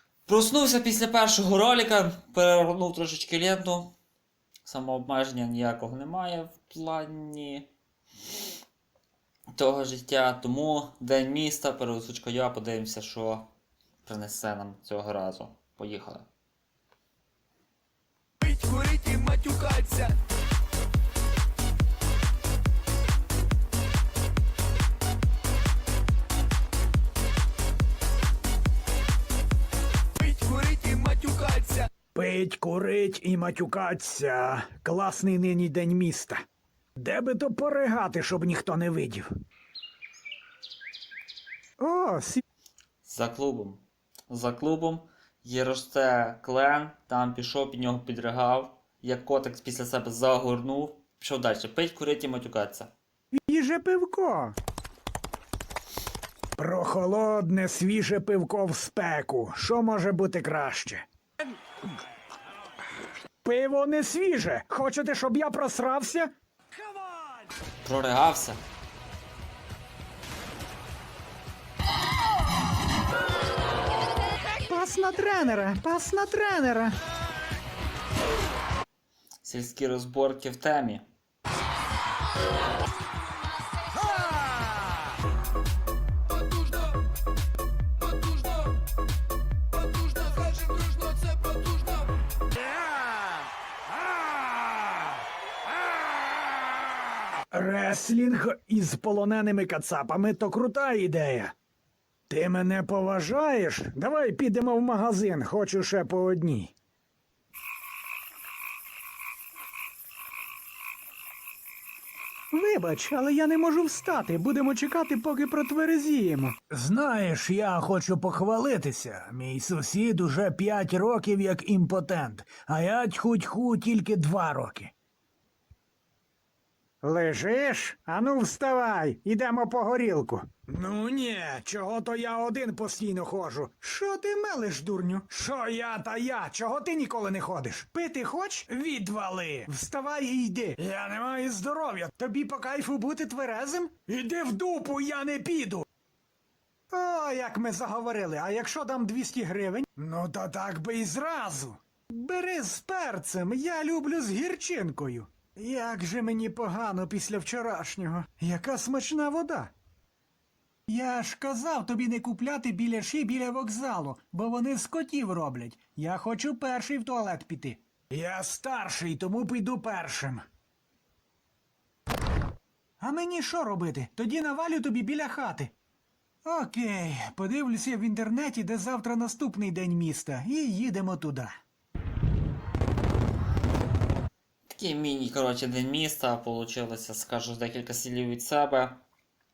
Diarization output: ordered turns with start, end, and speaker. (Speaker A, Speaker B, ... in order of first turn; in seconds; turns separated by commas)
Speaker A: 0.3-3.9, Speaker A: 4.7-7.7, Speaker A: 9.6-13.5, Speaker A: 14.0-16.3, Speaker B: 18.5-20.1, Speaker B: 30.2-31.9, Speaker C: 32.1-36.4, Speaker C: 37.0-39.3, Speaker C: 41.8-42.4, Speaker A: 43.0-52.9, Speaker C: 53.3-54.5, Speaker C: 56.6-61.0, Speaker C: 63.4-66.3, Speaker A: 67.8-68.6, Speaker C: 74.5-77.0, Speaker A: 79.4-81.0, Speaker C: 97.5-101.5, Speaker C: 102.3-106.7, Speaker C: 112.5-124.9, Speaker C: 127.0-145.8, Speaker C: 146.9-159.7, Speaker C: 160.9-170.4, Speaker C: 173.0-175.7, Speaker C: 176.4-181.5, Speaker A: 184.7-189.0